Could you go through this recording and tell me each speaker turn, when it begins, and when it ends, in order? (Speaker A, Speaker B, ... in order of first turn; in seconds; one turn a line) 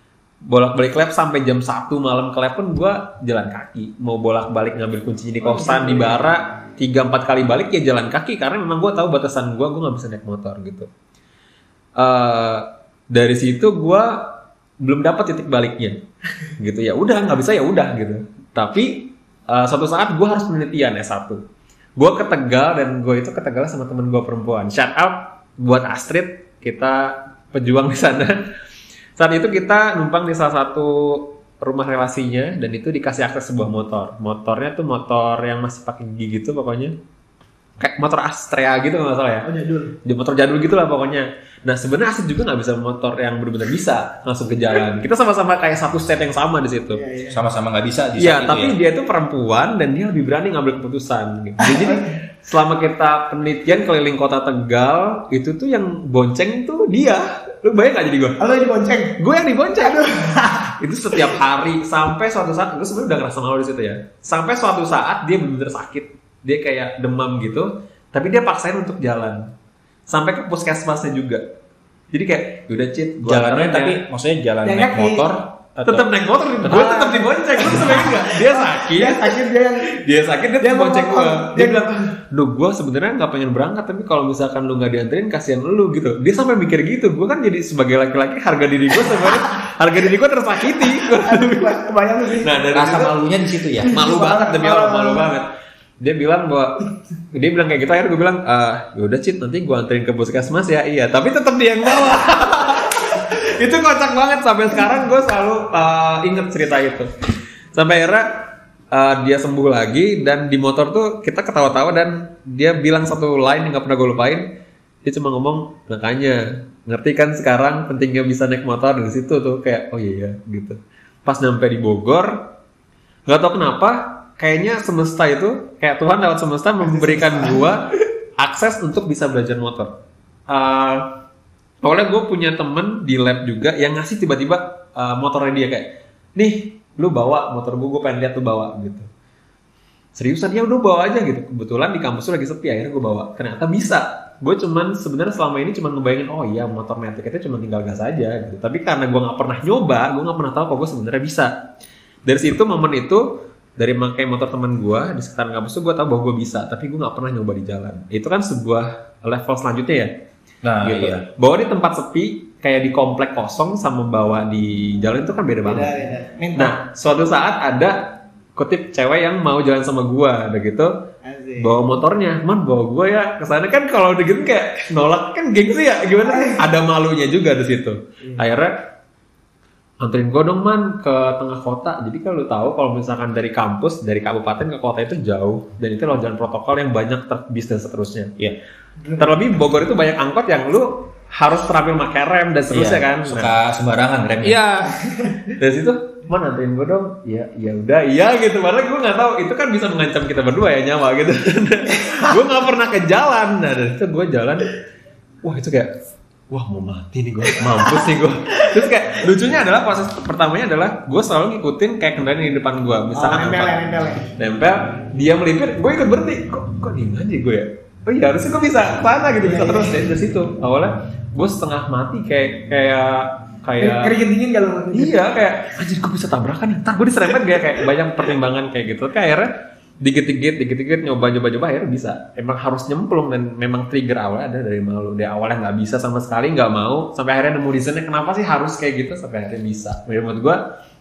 Speaker A: 0.4-10.9
Speaker B: 5.5-6.4
Speaker A: 12.0-21.4
Speaker A: 22.0-28.4
Speaker A: 29.2-37.0
Speaker A: 37.8-39.5
Speaker B: 39.5-40.0
Speaker A: 40.0-47.0
Speaker B: 46.9-47.4
Speaker C: 47.3-48.8
Speaker A: 48.2-58.4
Speaker B: 51.6-52.1
Speaker B: 58.4-59.2
Speaker A: 59.2-69.5
Speaker B: 59.8-61.4
Speaker A: 70.1-71.4
Speaker A: 72.1-74.0
Speaker C: 73.2-76.1
Speaker B: 74.6-75.3
Speaker A: 75.9-91.8
Speaker B: 76.6-79.9
Speaker B: 80.6-81.9
Speaker B: 90.9-92.7
Speaker A: 92.4-93.2
Speaker C: 92.7-94.0
Speaker B: 93.8-95.4
Speaker A: 93.9-95.5
Speaker A: 96.0-107.1
Speaker A: 107.7-114.5
Speaker A: 115.0-122.4
Speaker A: 123.3-129.9
Speaker B: 126.8-127.7
Speaker A: 130.5-131.1
Speaker A: 131.8-139.1
Speaker A: 140.2-151.6
Speaker A: 152.3-160.1
Speaker C: 160.6-161.3
Speaker A: 160.8-166.0
Speaker B: 165.7-166.8
Speaker A: 166.6-170.9
Speaker B: 171.2-171.8
Speaker A: 171.6-178.7
Speaker B: 176.2-176.6
Speaker A: 180.0-188.3
Speaker B: 189.0-189.5
Speaker A: 189.2-193.5
Speaker C: 192.7-194.6
Speaker A: 194.4-204.7
Speaker B: 195.1-195.4
Speaker A: 205.4-206.0
Speaker A: 206.5-224.2
Speaker B: 213.1-214.3
Speaker B: 219.4-220.0
Speaker B: 223.8-225.2
Speaker A: 224.9-229.5
Speaker A: 230.0-240.6